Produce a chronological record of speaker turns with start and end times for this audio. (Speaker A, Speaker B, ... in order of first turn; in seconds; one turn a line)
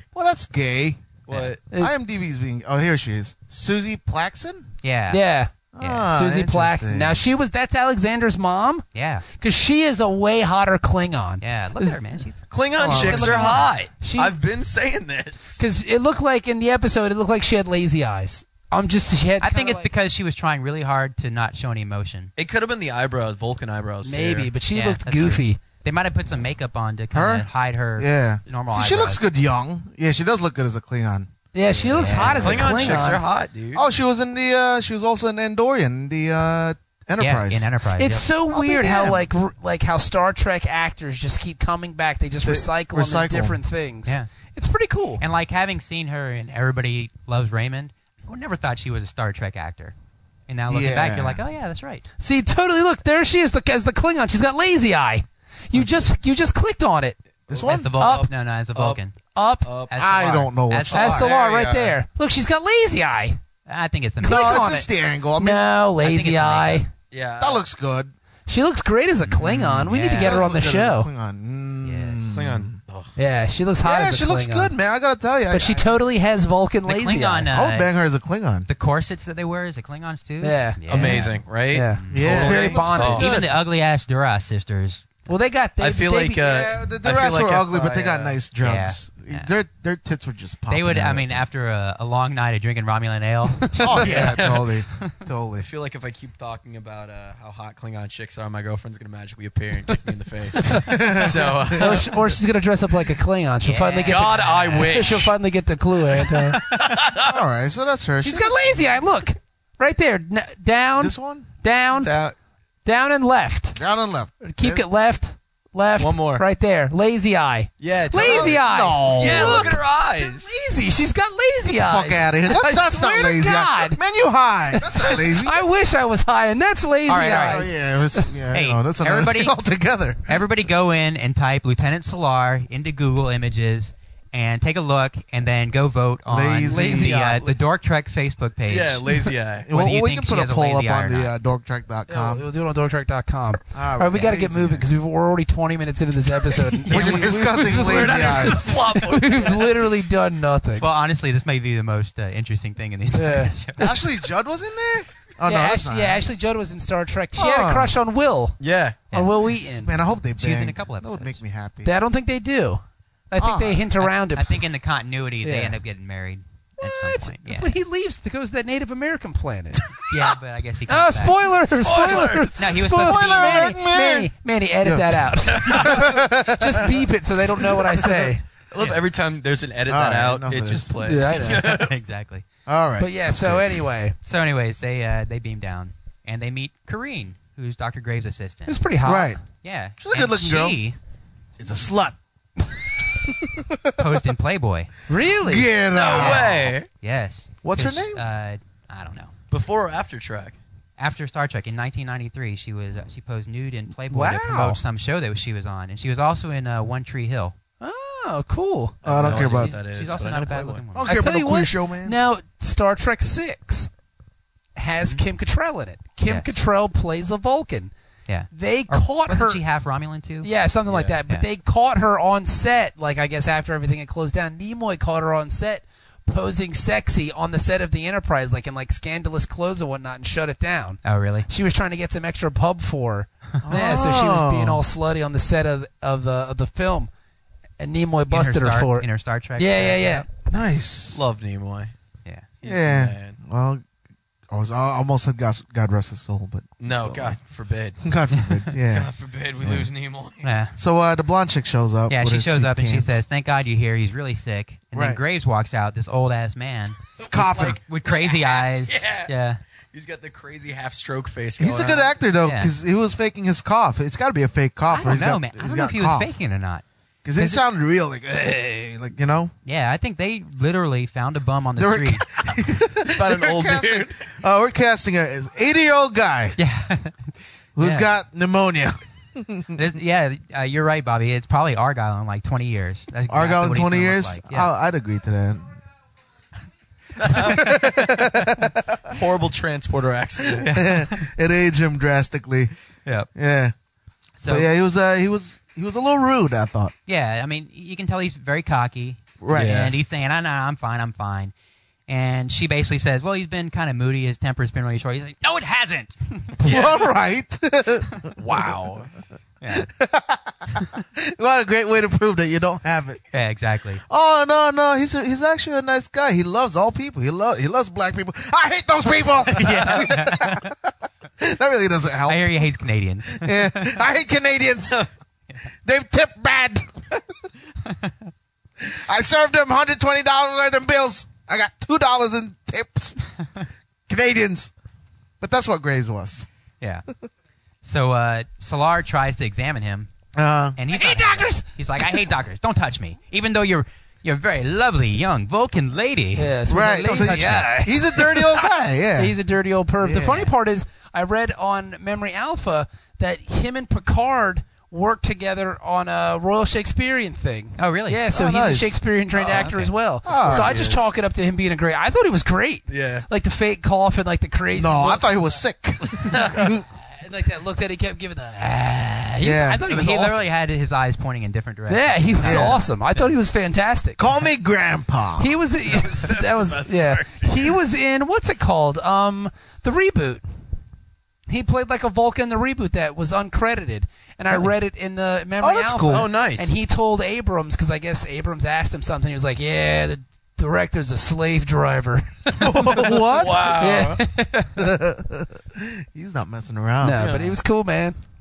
Speaker A: 0.1-1.2
Speaker B: 1.3-1.6
Speaker A: 1.7-4.7
Speaker C: 4.8-5.2
Speaker D: 5.1-5.5
Speaker A: 5.7-7.2
Speaker C: 5.8-6.1
Speaker D: 6.1-8.8
Speaker C: 8.9-9.2
Speaker D: 9.4-11.9
Speaker C: 11.4-13.7
Speaker B: 12.5-15.6
Speaker A: 12.8-13.6
Speaker D: 14.0-14.3
Speaker D: 15.6-19.9
Speaker C: 19.4-22.3
Speaker B: 22.4-24.5
Speaker D: 24.0-25.6
Speaker C: 24.7-29.2
Speaker A: 27.1-33.2
Speaker D: 31.5-33.2
Speaker C: 31.9-32.7
Speaker B: 32.4-33.8
Speaker A: 33.7-37.7
Speaker C: 37.2-38.2
Speaker D: 38.0-45.2
Speaker A: 38.5-39.2
Speaker A: 42.4-43.6
Speaker C: 45.2-49.9
Speaker C: 50.5-52.0
Speaker A: 50.7-51.4
Speaker D: 52.2-57.2
Speaker A: 55.7-56.0
Speaker A: 57.5-57.9
Speaker B: 57.5-59.0
Speaker C: 57.6-59.1
Speaker D: 58.0-58.3
Speaker D: 59.3-59.7
Speaker B: 59.6-60.0
Speaker C: 59.9-61.3
Speaker A: 59.9-61.0
Speaker B: 60.9-61.9
Speaker D: 60.9-63.4
Speaker C: 63.7-64.7
Speaker D: 64.2-66.9
Speaker A: 64.2-65.7
Speaker C: 66.0-66.8
Speaker B: 67.1-67.6
Speaker A: 67.4-68.1
Speaker D: 68.5-71.1
Speaker C: 69.2-70.4
Speaker A: 69.4-72.8
Speaker C: 71.8-72.4
Speaker B: 72.3-73.1
Speaker D: 73.2-74.7
Speaker A: 73.8-76.0
Speaker D: 75.5-77.5
Speaker C: 76.8-77.9
Speaker A: 77.5-78.7
Speaker C: 78.7-85.3
Speaker D: 80.4-83.4
Speaker B: 80.9-83.5
Speaker A: 82.1-83.4
Speaker D: 85.3-86.5
Speaker B: 85.8-88.4
Speaker A: 86.4-91.4
Speaker C: 88.6-89.5
Speaker C: 90.7-95.1
Speaker A: 93.8-95.7
Speaker B: 94.0-94.4
Speaker B: 95.6-102.2
Speaker A: 100.8-102.0
Speaker D: 101.7-106.6
Speaker C: 103.6-105.1
Speaker B: 104.0-105.3
Speaker B: 106.2-107.4
Speaker A: 107.2-109.0
Speaker D: 108.2-112.1
Speaker A: 111.0-111.5
Speaker B: 111.9-112.3
Speaker D: 112.8-113.8
Speaker A: 113.8-114.8
Speaker D: 114.4-124.0
Speaker B: 116.0-116.4
Speaker B: 117.8-118.6
Speaker A: 118.1-119.8
Speaker B: 119.1-120.5
Speaker A: 121.6-125.6
Speaker D: 124.7-128.3
Speaker C: 127.1-127.7
Speaker A: 127.4-130.4
Speaker C: 128.5-129.5
Speaker C: 130.3-141.3
Speaker A: 136.3-137.1
Speaker D: 136.7-137.5
Speaker B: 138.7-139.7
Speaker A: 139.6-142.4
Speaker D: 142.1-150.9
Speaker A: 143.7-144.8
Speaker B: 146.8-149.8
Speaker A: 146.9-148.7
Speaker C: 150.8-154.0
Speaker D: 153.1-153.5
Speaker A: 153.8-156.2
Speaker D: 155.4-159.9
Speaker A: 157.3-157.9
Speaker B: 158.6-159.1
Speaker A: 159.4-161.9
Speaker C: 160.3-161.4
Speaker D: 161.8-164.6
Speaker A: 163.4-163.9
Speaker C: 164.0-167.7
Speaker D: 165.4-165.8
Speaker D: 166.8-169.8
Speaker C: 170.1-171.5
Speaker D: 170.9-178.4
Speaker B: 171.7-172.7
Speaker C: 172.6-173.7
Speaker A: 172.8-174.3
Speaker A: 174.8-177.1
Speaker B: 175.5-176.0
Speaker B: 178.7-181.9
Speaker A: 179.9-180.9
Speaker D: 181.0-181.7
Speaker C: 181.3-182.4
Speaker A: 182.7-183.8
Speaker D: 183.0-184.1
Speaker C: 184.2-188.8
Speaker D: 188.7-189.4
Speaker A: 189.0-189.4
Speaker C: 189.6-190.9
Speaker A: 190.0-190.8
Speaker A: 191.6-192.2
Speaker A: 193.2-194.2
Speaker C: 194.0-194.9
Speaker D: 195.1-195.7
Speaker A: 195.4-196.6
Speaker B: 195.9-196.9
Speaker C: 196.1-199.3
Speaker A: 197.6-198.2
Speaker B: 199.5-200.6
Speaker C: 201.0-207.5
Speaker D: 204.1-204.8
Speaker D: 207.8-208.9
Speaker B: 209.0-210.8
Speaker A: 209.0-209.8
Speaker C: 209.1-211.1
Speaker A: 210.9-212.2
Speaker D: 211.0-213.9
Speaker D: 214.7-217.9
Speaker C: 216.2-216.6
Speaker C: 218.3-220.5
Speaker D: 218.5-219.6
Speaker D: 220.4-237.1
Speaker B: 220.9-221.2
Speaker C: 231.0-231.5
Speaker A: 233.6-234.8
Speaker D: 237.8-240.3
Speaker C: 238.3-240.2
Speaker A: 240.5-241.2
Speaker B: 241.1-241.9
Speaker B: 242.6-243.4
Speaker A: 242.6-243.8
Speaker A: 244.5-247.4
Speaker B: 246.8-248.0
Speaker A: 248.0-249.9
Speaker C: 248.3-248.7
Speaker B: 248.9-250.5
Speaker C: 250.4-250.7
Speaker A: 250.8-253.2
Speaker C: 252.1-257.0
Speaker A: 254.9-255.2
Speaker B: 257.2-259.3
Speaker A: 257.2-257.8
Speaker C: 257.8-259.6
Speaker B: 259.9-262.1
Speaker A: 261.6-266.3
Speaker C: 262.4-262.7
Speaker C: 264.9-266.8
Speaker A: 267.2-269.5
Speaker C: 267.4-267.6
Speaker C: 269.6-272.4
Speaker A: 271.8-276.6
Speaker B: 273.0-274.1
Speaker C: 276.6-278.1
Speaker A: 277.8-279.7
Speaker C: 279.7-284.7
Speaker A: 283.3-285.8
Speaker A: 287.2-289.1
Speaker B: 287.2-287.7
Speaker C: 287.3-287.9
Speaker B: 289.1-290.6
Speaker A: 290.6-292.7
Speaker C: 290.6-291.3
Speaker A: 293.3-293.7
Speaker C: 294.4-294.7
Speaker A: 294.5-296.9
Speaker C: 297.1-301.5
Speaker A: 299.4-299.9
Speaker B: 299.5-299.9
Speaker C: 302.1-307.0
Speaker A: 306.6-308.3
Speaker B: 308.4-309.1
Speaker C: 309.6-309.9
Speaker A: 309.7-313.2
Speaker C: 313.3-314.0
Speaker A: 314.1-322.5
Speaker C: 319.5-320.7
Speaker C: 322.3-324.0
Speaker A: 323.3-325.0
Speaker A: 325.8-327.2
Speaker A: 328.8-333.2
Speaker A: 334.1-334.7
Speaker A: 335.4-336.5
Speaker C: 336.8-337.0
Speaker C: 337.8-340.1
Speaker A: 340.3-340.8
Speaker C: 340.8-347.8
Speaker D: 340.9-342.2
Speaker D: 346.3-348.4
Speaker A: 346.7-349.3
Speaker D: 349.1-365.3
Speaker A: 350.0-350.4
Speaker C: 350.2-350.5
Speaker C: 357.8-358.2
Speaker A: 358.3-359.0
Speaker B: 359.4-359.7
Speaker C: 359.5-359.9
Speaker A: 360.2-360.9
Speaker B: 360.4-361.1
Speaker B: 362.9-363.2
Speaker A: 364.8-366.8
Speaker B: 366.2-366.7
Speaker D: 367.2-370.4
Speaker A: 369.4-369.8
Speaker C: 369.7-373.3
Speaker D: 371.9-374.2
Speaker A: 372.4-372.8
Speaker A: 374.2-375.5
Speaker D: 375.4-380.4
Speaker B: 375.8-377.7
Speaker D: 381.5-393.2
Speaker A: 385.6-386.3
Speaker B: 386.1-386.7
Speaker A: 392.6-393.8
Speaker B: 393.0-394.2
Speaker D: 393.7-394.8
Speaker A: 394.7-397.2
Speaker D: 397.0-398.2
Speaker B: 397.2-397.5